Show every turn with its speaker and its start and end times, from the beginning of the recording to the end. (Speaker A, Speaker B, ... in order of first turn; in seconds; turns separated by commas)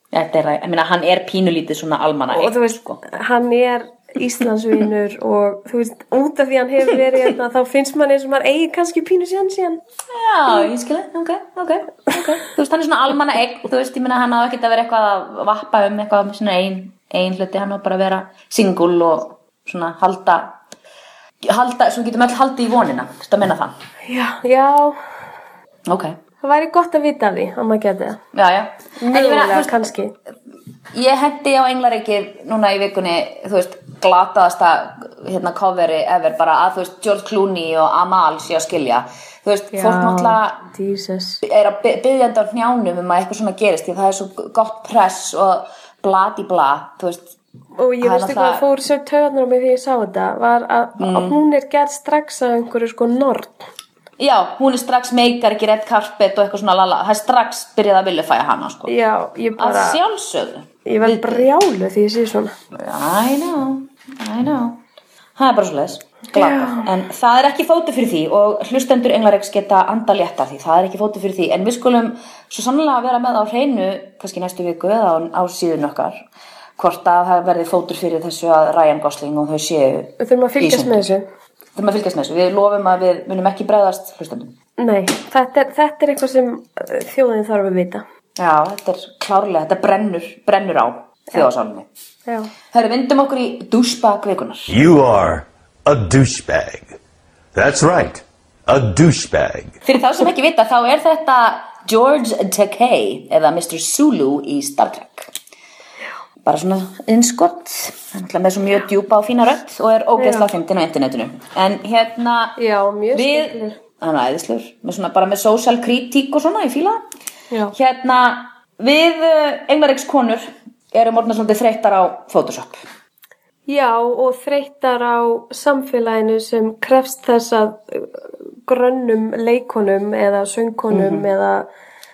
Speaker A: 0.1-3.0, Speaker B: 2.3-9.8, Speaker A: 10.1-20.5, Speaker A: 21.4-23.7, Speaker B: 24.1-25.0, Speaker A: 25.9-26.2, Speaker B: 26.4-28.2, Speaker A: 28.3-29.9, Speaker B: 29.0-30.1, Speaker A: 30.9-40.6, Speaker B: 39.7-41.4, Speaker A: 41.4-47.3, Speaker B: 47.8-53.7, Speaker A: 48.0-48.6, Speaker A: 51.0-51.4, Speaker A: 54.2-58.9, Speaker B: 58.9-60.0, Speaker A: 59.6-61.5, Speaker B: 60.8-62.5, Speaker A: 62.7-64.8, Speaker A: 65.4-76.2, Speaker B: 66.3-66.9, Speaker A: 76.8-81.0, Speaker B: 80.2-81.2, Speaker A: 81.8-84.5, Speaker B: 84.8-88.0, Speaker A: 88.4-91.9, Speaker A: 92.7-94.8, Speaker C: 94.7-97.0, Speaker C: 97.5-99.8, Speaker A: 99.8-105.3, Speaker A: 106.4-112.6, Speaker B: 110.2-110.5, Speaker B: 112.6-113.8, Speaker A: 113.1-117.0, Speaker A: 117.7-122.8, Speaker B: 123.7-128.1, Speaker B: 128.7-131.7, Speaker A: 130.9-131.3